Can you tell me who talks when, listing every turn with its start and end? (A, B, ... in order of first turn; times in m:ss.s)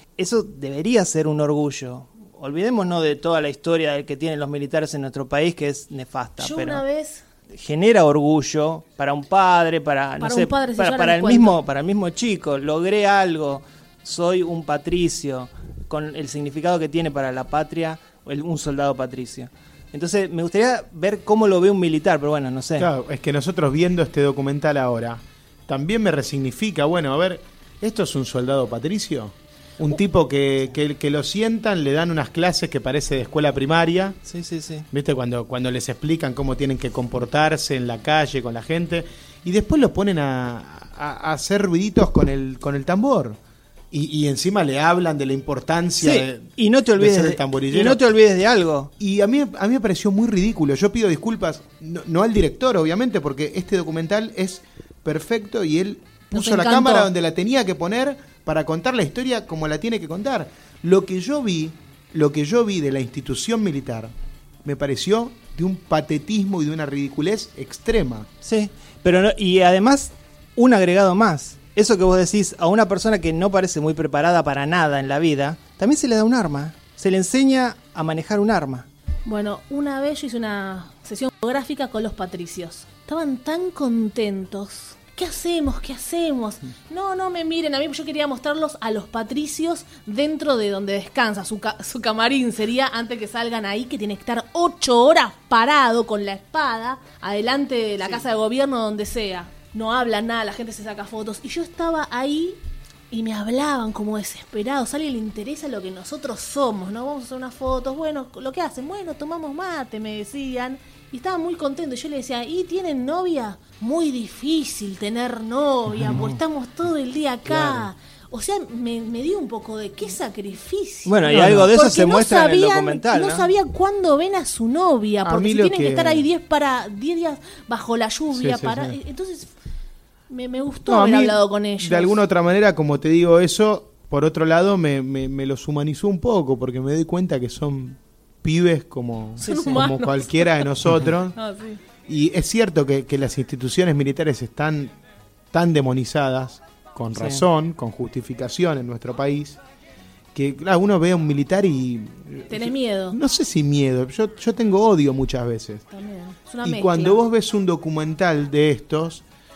0:00.2-0:06.8 A
0:06.4-0:07.2 B
0:07.5-0:22.9 A
0:10.2-0:11.6 B
0:22.8-0:34.2 C
0:34.3-0:34.8 A
0:34.9-0:43.4 C
0:43.9-0:48.0 C
0:46.0-0:48.9 A
0:49.0-1:04.1 C
0:56.3-0:57.1 B
1:04.6-1:08.3 C
1:08.4-1:18.9 A
1:19.2-1:42.6 B
1:43.1-2:09.5 B
1:57.4-1:57.9 C
2:01.0-2:03.5 A
2:05.2-2:06.3 C
2:08.3-2:09.0 C
2:10.3-2:12.2 B
2:10.8-2:21.4 C
2:19.4-2:20.6 B
2:21.4-2:21.8 B
2:22.0-2:24.9 C
2:25.5-2:29.6 C
2:27.1-2:27.4 A
2:30.3-2:35.8 C
2:32.5-2:33.2 B
2:35.9-2:37.2 B
2:36.6-2:39.2 C